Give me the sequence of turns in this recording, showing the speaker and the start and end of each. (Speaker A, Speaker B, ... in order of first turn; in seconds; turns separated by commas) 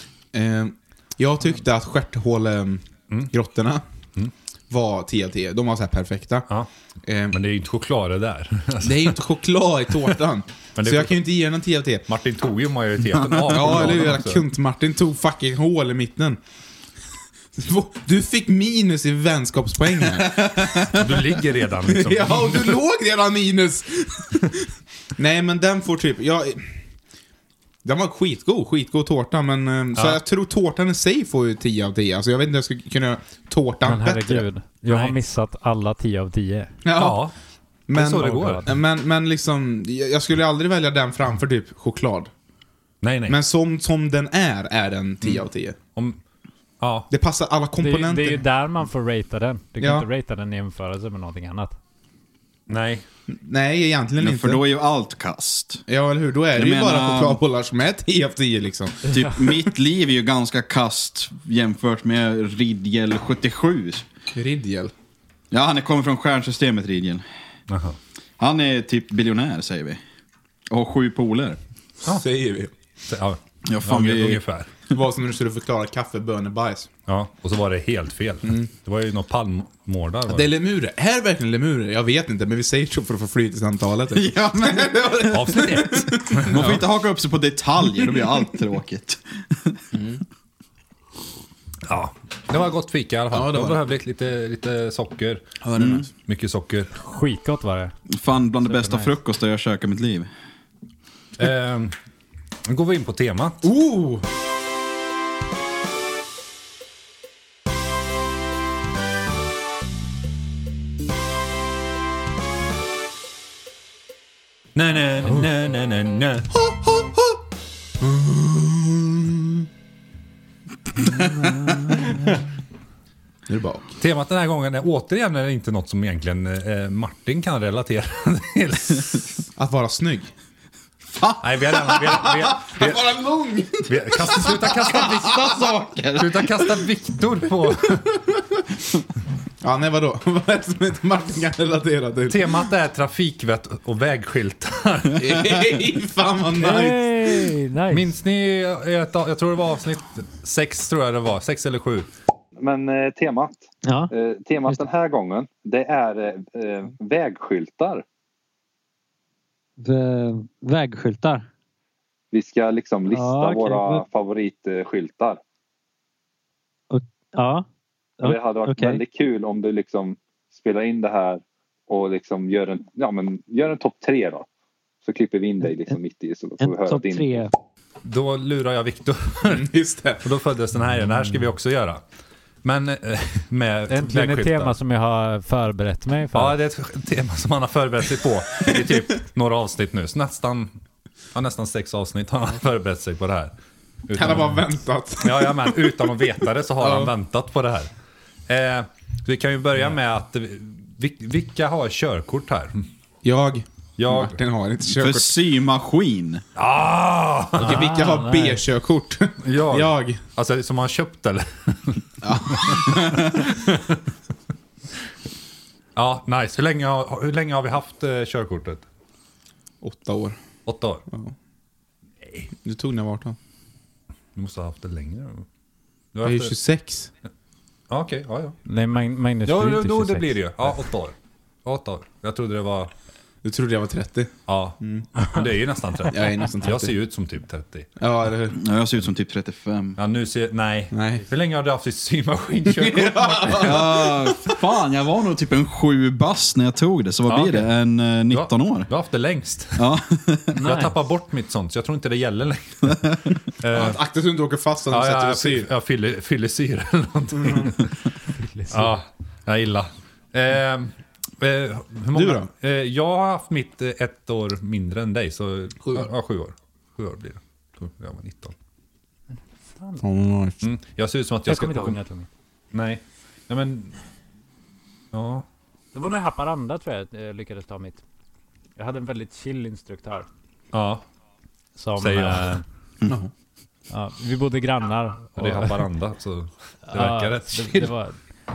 Speaker A: 0.3-3.8, Speaker A: 4.7-6.5, Speaker A: 7.0-7.4, Speaker B: 7.3-9.2, Speaker A: 8.8-12.0, Speaker B: 10.8-11.2, Speaker B: 12.1-14.4, Speaker A: 13.5-16.4, Speaker A: 17.6-21.1, Speaker B: 20.9-22.8, Speaker A: 21.9-26.7, Speaker A: 27.8-34.4, Speaker B: 29.9-30.2, Speaker C: 33.8-36.7, Speaker B: 34.9-35.1, Speaker A: 36.8-37.3, Speaker B: 36.9-37.3, Speaker A: 37.9-42.3, Speaker B: 37.9-38.7, Speaker C: 38.2-38.7, Speaker B: 43.0-43.4, Speaker A: 43.3-45.8, Speaker B: 46.8-47.1, Speaker A: 47.1-48.4, Speaker C: 47.8-51.8, Speaker A: 49.8-50.0, Speaker B: 52.7-53.0, Speaker A: 53.3-54.6, Speaker D: 54.2-55.8, Speaker A: 55.9-59.6, Speaker D: 56.5-57.4, Speaker D: 59.1-64.0, Speaker A: 64.3-64.9, Speaker D: 65.5-67.2, Speaker B: 67.7-68.0, Speaker D: 68.4-70.0, Speaker D: 70.7-71.6, Speaker A: 72.0-72.7, Speaker B: 73.1-74.7, Speaker D: 73.6-74.4, Speaker A: 74.9-76.9, Speaker B: 77.1-80.5, Speaker A: 80.3-86.8, Speaker D: 84.1-85.7, Speaker B: 85.3-86.8, Speaker D: 86.4-89.8, Speaker A: 89.9-90.2, Speaker B: 91.8-95.5, Speaker A: 93.3-93.8, Speaker A: 95.6-96.1, Speaker D: 95.8-96.0, Speaker B: 96.2-96.9, Speaker C: 97.0-97.9, Speaker D: 98.1-100.3, Speaker C: 98.6-99.1, Speaker B: 101.4-101.9, Speaker B: 102.7-103.7, Speaker A: 103.6-104.2, Speaker B: 114.7-116.5, Speaker A: 118.0-119.7, Speaker C: 121.2-122.2, Speaker A: 123.5-123.9, Speaker B: 124.0-129.3, Speaker A: 129.6-130.3, Speaker B: 131.4-133.2, Speaker A: 131.9-135.3, Speaker B: 133.8-138.1, Speaker D: 134.9-136.5, Speaker A: 139.6-142.7, Speaker B: 142.3-145.6, Speaker A: 145.2-147.1, Speaker C: 146.6-148.1, Speaker B: 147.9-152.1, Speaker E: 152.6-158.0, Speaker F: 153.8-154.1, Speaker F: 159.8-161.5, Speaker E: 162.3-165.4, Speaker F: 163.1-164.0, Speaker F: 166.9-167.7, Speaker F: 168.2-169.0, Speaker E: 168.2-174.5, Speaker E: 175.0-177.5, Speaker F: 176.6-177.5, Speaker B: 178.0-182.0, Speaker A: 179.4-180.2, Speaker B: 182.6-184.7, Speaker C: 183.9-186.6, Speaker B: 186.3-190.7, Speaker B: 191.3-193.5, Speaker B: 194.1-194.6, Speaker A: 194.1-196.0, Speaker B: 195.2-197.9, Speaker A: 196.8-197.1, Speaker B: 198.5-202.8, Speaker A: 203.2-205.3, Speaker B: 204.0-204.3, Speaker D: 204.9-206.4, Speaker B: 206.6-207.9, Speaker C: 207.6-208.6, Speaker A: 207.6-210.2, Speaker B: 209.4-214.0, Speaker A: 212.2-213.4, Speaker B: 215.9-218.8, Speaker A: 219.8-220.4, Speaker B: 220.7-221.0, Speaker A: 222.6-223.4, Speaker B: 224.3-225.4, Speaker B: 226.1-226.5, Speaker A: 226.2-227.1, Speaker B: 227.9-228.6, Speaker C: 228.7-230.3, Speaker B: 229.4-232.9, Speaker A: 233.4-235.1, Speaker B: 234.5-237.9, Speaker A: 236.1-236.9, Speaker A: 238.0-238.6, Speaker D: 238.5-240.0, Speaker B: 240.0-244.2, Speaker A: 240.9-241.2, Speaker A: 242.7-244.1, Speaker D: 243.5-248.9, Speaker B: 247.3-247.7, Speaker B: 248.3-249.9, Speaker D: 249.8-250.6, Speaker C: 250.5-250.9, Speaker B: 250.6-254.0, Speaker A: 253.7-255.7, Speaker B: 254.9-258.1, Speaker A: 257.4-257.7, Speaker C: 258.3-258.9, Speaker B: 258.7-268.5, Speaker A: 262.1-262.5, Speaker A: 265.8-266.1, Speaker C: 269.8-270.0, Speaker A: 270.0-270.6, Speaker B: 270.6-272.0, Speaker C: 271.4-272.3, Speaker B: 272.7-273.9, Speaker B: 275.1-275.4, Speaker C: 275.9-278.0, Speaker C: 278.8-280.3, Speaker B: 280.7-281.0, Speaker C: 281.8-282.6, Speaker B: 282.0-282.6, Speaker A: 283.0-283.3, Speaker C: 283.9-285.8, Speaker B: 285.4-287.9, Speaker C: 286.9-288.2